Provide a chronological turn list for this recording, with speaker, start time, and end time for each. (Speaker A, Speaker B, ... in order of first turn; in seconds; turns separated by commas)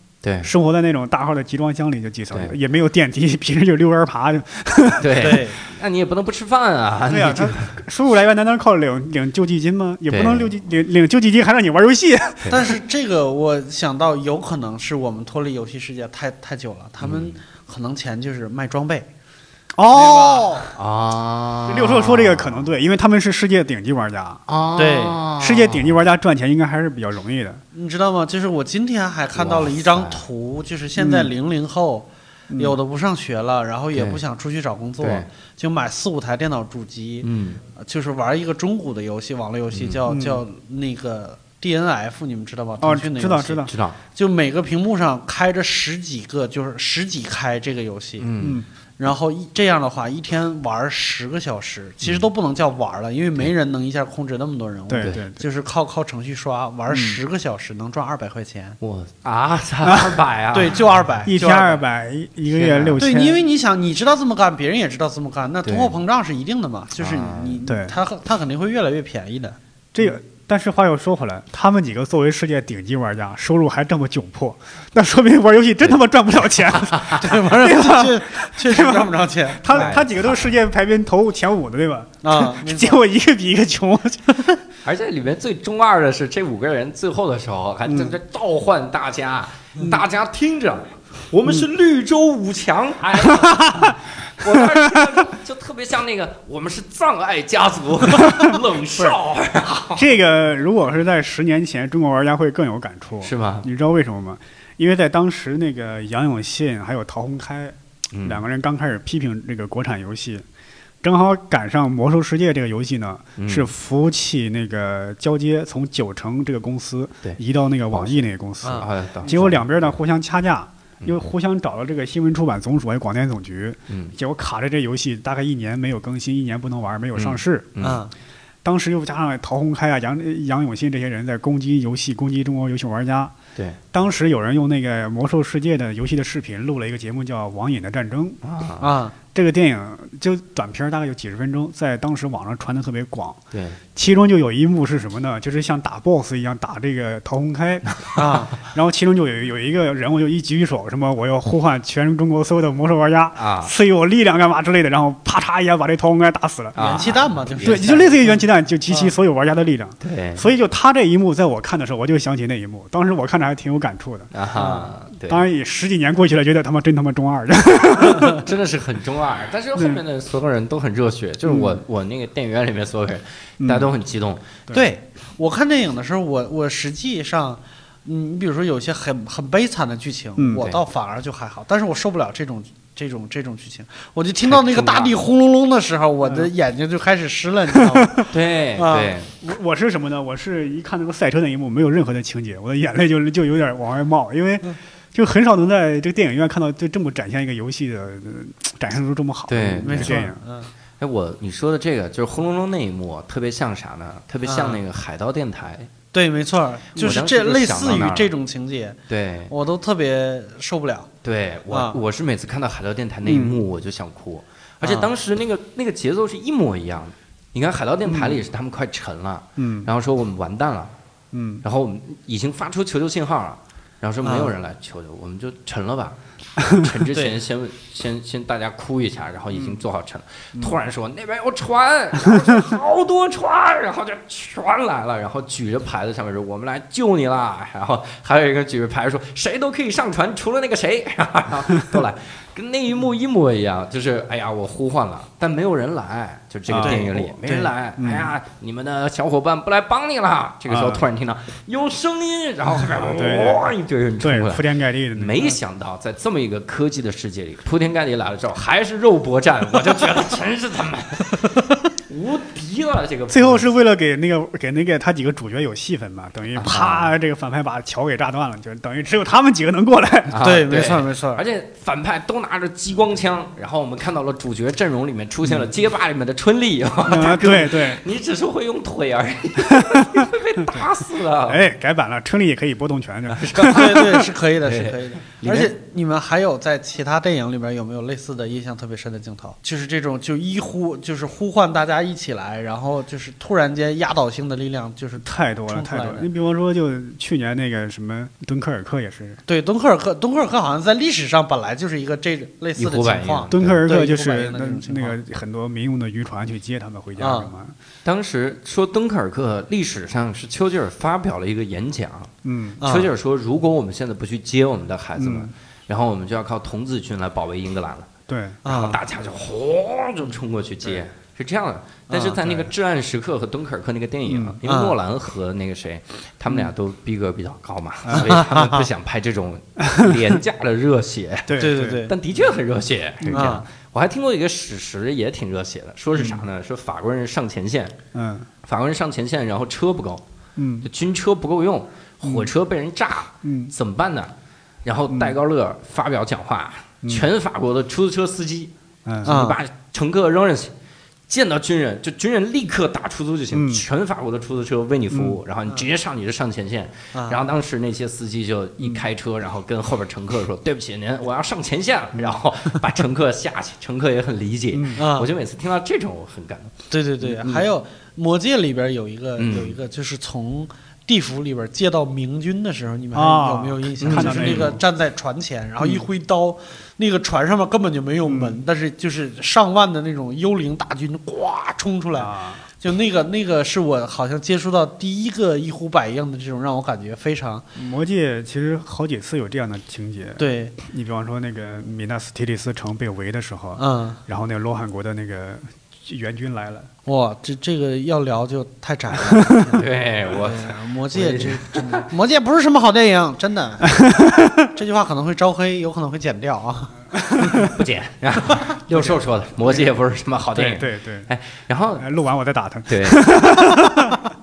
Speaker A: 0.2-0.5, Speaker B: 0.4-5.4, Speaker A: 5.0-7.8, Speaker C: 5.2-5.6, Speaker B: 7.1-12.7, Speaker A: 10.1-10.5, Speaker A: 12.4-12.7, Speaker C: 12.5-19.1, Speaker A: 17.0-17.4, Speaker B: 19.8-20.7, Speaker C: 19.9-20.7, Speaker A: 20.7-22.7, Speaker B: 21.7-24.4, Speaker A: 24.5-26.0, Speaker C: 24.8-25.2, Speaker B: 25.4-27.6, Speaker C: 27.7-48.3, Speaker A: 29.4-30.2, Speaker B: 31.0-31.3, Speaker B: 32.5-32.8, Speaker A: 33.9-34.2, Speaker A: 35.0-35.3, Speaker A: 37.2-37.6, Speaker A: 39.7-40.0, Speaker B: 40.1-40.4, Speaker B: 42.8-43.7, Speaker A: 43.7-44.0, Speaker A: 48.2-48.6, Speaker B: 48.4-48.7, Speaker C: 49.0-58.8, Speaker B: 54.9-55.4, Speaker B: 56.9-57.2, Speaker A: 58.8-60.8, Speaker B: 59.8-60.2, Speaker C: 60.5-61.8, Speaker B: 61.2-63.4, Speaker A: 62.5-63.1, Speaker C: 63.0-69.6, Speaker A: 65.7-66.0, Speaker A: 67.0-67.6, Speaker B: 67.7-68.0, Speaker B: 69.9-84.6, Speaker A: 76.8-77.2, Speaker C: 77.2-80.0, Speaker A: 79.7-80.5, Speaker C: 82.2-83.0, Speaker A: 84.8-100.1, Speaker B: 87.9-88.2, Speaker B: 93.3-93.9, Speaker B: 94.5-95.1, Speaker B: 98.2-99.2, Speaker B: 100.0-110.5, Speaker A: 103.2-103.7, Speaker A: 108.1-108.4, Speaker B: 111.0-127.7, Speaker A: 113.4-113.7, Speaker A: 117.9-120.0, Speaker C: 118.6-118.9, Speaker A: 123.9-124.1, Speaker A: 127.2-128.0, Speaker C: 127.8-128.1, Speaker B: 128.6-133.3, Speaker B: 133.9-138.4, Speaker A: 138.4-138.9, Speaker C: 138.8-139.2, Speaker B: 139.3-143.4, Speaker A: 143.5-143.8, Speaker B: 143.9-156.8, Speaker C: 148.2-148.5, Speaker A: 153.4-153.7, Speaker A: 156.8-157.9, Speaker C: 156.8-158.4, Speaker B: 157.6-164.3, Speaker A: 160.0-160.5, Speaker A: 164.3-165.4, Speaker C: 164.6-164.9, Speaker B: 165.2-168.5, Speaker A: 168.2-174.6, Speaker B: 169.8-170.0, Speaker B: 173.6-173.9, Speaker C: 174.7-189.2, Speaker B: 180.4-180.6, Speaker A: 184.4-185.2, Speaker B: 186.2-186.5, Speaker B: 187.8-188.3, Speaker A: 188.3-189.3, Speaker B: 189.4-200.4, Speaker A: 199.5-200.2, Speaker C: 199.8-200.7, Speaker A: 201.0-205.9, Speaker C: 204.4-204.8, Speaker C: 206.1-209.0, Speaker A: 207.0-208.3, Speaker A: 209.1-209.5, Speaker C: 209.5-211.1, Speaker A: 211.2-220.9, Speaker C: 211.7-212.0, Speaker B: 213.2-213.6, Speaker C: 214.8-215.1, Speaker B: 218.1-218.4, Speaker B: 219.6-219.9, Speaker B: 221.3-221.6, Speaker A: 221.6-261.6, Speaker C: 224.2-224.5, Speaker B: 229.5-229.8, Speaker B: 246.7-247.3, Speaker C: 246.8-247.7, Speaker B: 248.0-248.3, Speaker B: 250.7-251.0, Speaker B: 253.0-255.6, Speaker A: 262.1-263.7, Speaker B: 263.3-270.4, Speaker A: 266.6-267.1, Speaker A: 270.3-281.6, Speaker C: 270.4-271.4, Speaker B: 277.1-278.0, Speaker B: 279.7-280.3, Speaker B: 281.5-284.1, Speaker A: 283.3-285.7, Speaker C: 283.6-296.3, Speaker B: 295.2-299.4, Speaker C: 299.5-305.2, Speaker A: 302.8-303.8, Speaker B: 303.5-307.8, Speaker C: 307.2-307.5, Speaker A: 308.1-318.1, Speaker B: 312.4-312.8, Speaker C: 312.8-313.1, Speaker B: 315.2-315.5, Speaker B: 318.3-318.6, Speaker C: 318.6-319.0, Speaker A: 318.7-338.0, Speaker C: 322.1-322.6, Speaker B: 324.3-324.6, Speaker C: 324.6-324.9, Speaker B: 328.1-328.4, Speaker C: 328.1-328.8, Speaker B: 329.9-330.4, Speaker B: 331.5-332.0, Speaker C: 331.6-332.1, Speaker B: 333.2-333.6, Speaker C: 333.3-333.7, Speaker B: 336.1-336.5, Speaker B: 338.1-338.5, Speaker A: 338.6-340.2, Speaker B: 340.6-340.9, Speaker A: 340.8-344.3, Speaker B: 342.2-342.5, Speaker B: 343.4-343.7, Speaker A: 344.8-348.7, Speaker B: 345.1-345.4, Speaker B: 347.0-347.3, Speaker B: 349.1-349.4, Speaker A: 349.2-350.7, Speaker C: 349.2-349.6, Speaker A: 351.3-367.6, Speaker B: 353.5-353.9, Speaker B: 355.1-355.4, Speaker C: 357.1-357.4, Speaker B: 364.7-365.0, Speaker C: 365.0-365.3, Speaker C: 366.9-387.7, Speaker A: 369.4-369.8, Speaker B: 373.1-374.8, Speaker A: 374.0-374.8, Speaker B: 378.2-378.6, Speaker B: 382.1-382.6, Speaker B: 387.8-396.9, Speaker C: 390.4-390.8, Speaker C: 393.8-394.2, Speaker C: 397.1-404.1, Speaker A: 399.7-402.1, Speaker B: 403.9-404.7, Speaker C: 404.6-407.7, Speaker B: 407.1-407.7, Speaker A: 407.6-412.1, Speaker B: 410.6-411.3, Speaker B: 412.0-414.2, Speaker A: 412.9-413.8